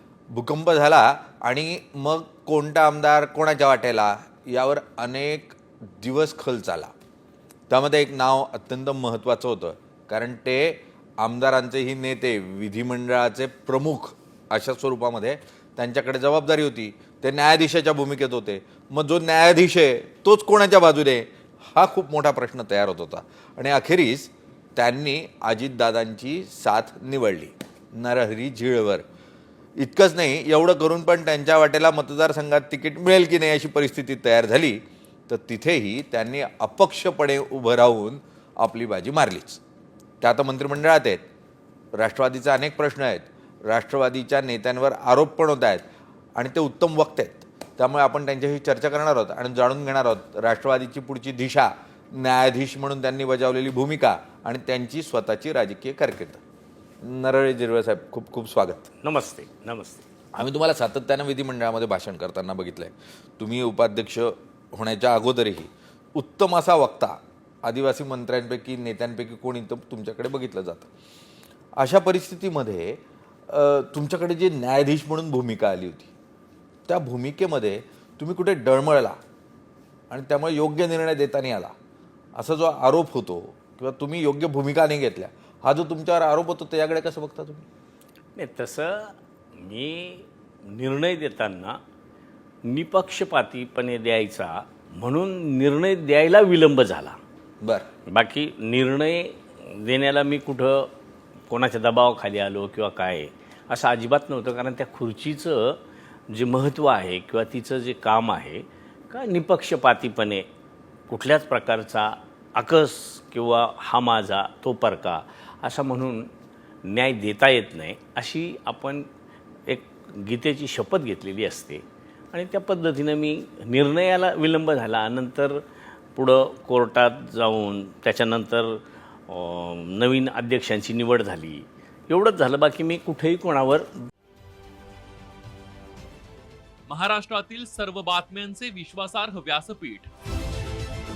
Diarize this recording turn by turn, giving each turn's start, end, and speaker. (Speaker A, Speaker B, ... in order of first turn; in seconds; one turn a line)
Speaker A: 0.3-6.9
Speaker A: 7.7-29.1
Speaker A: 29.8-39.6
Speaker A: 40.2-41.2
Speaker A: 42.0-56.4
Speaker A: 57.0-58.9
Speaker B: 59.0-60.1
Speaker A: 60.4-70.9
Speaker A: 71.8-76.1
Speaker A: 76.9-79.2
Speaker A: 80.1-81.7
Speaker A: 82.4-87.7
Speaker B: 88.4-91.8
Speaker B: 92.6-97.2
Speaker A: 97.6-97.9
Speaker B: 98.1-100.9
Speaker B: 101.5-110.5
Speaker B: 111.1-116.3
Speaker B: 116.8-119.1
Speaker B: 119.7-125.6
Speaker B: 126.2-134.1
Speaker C: 136.9-140.1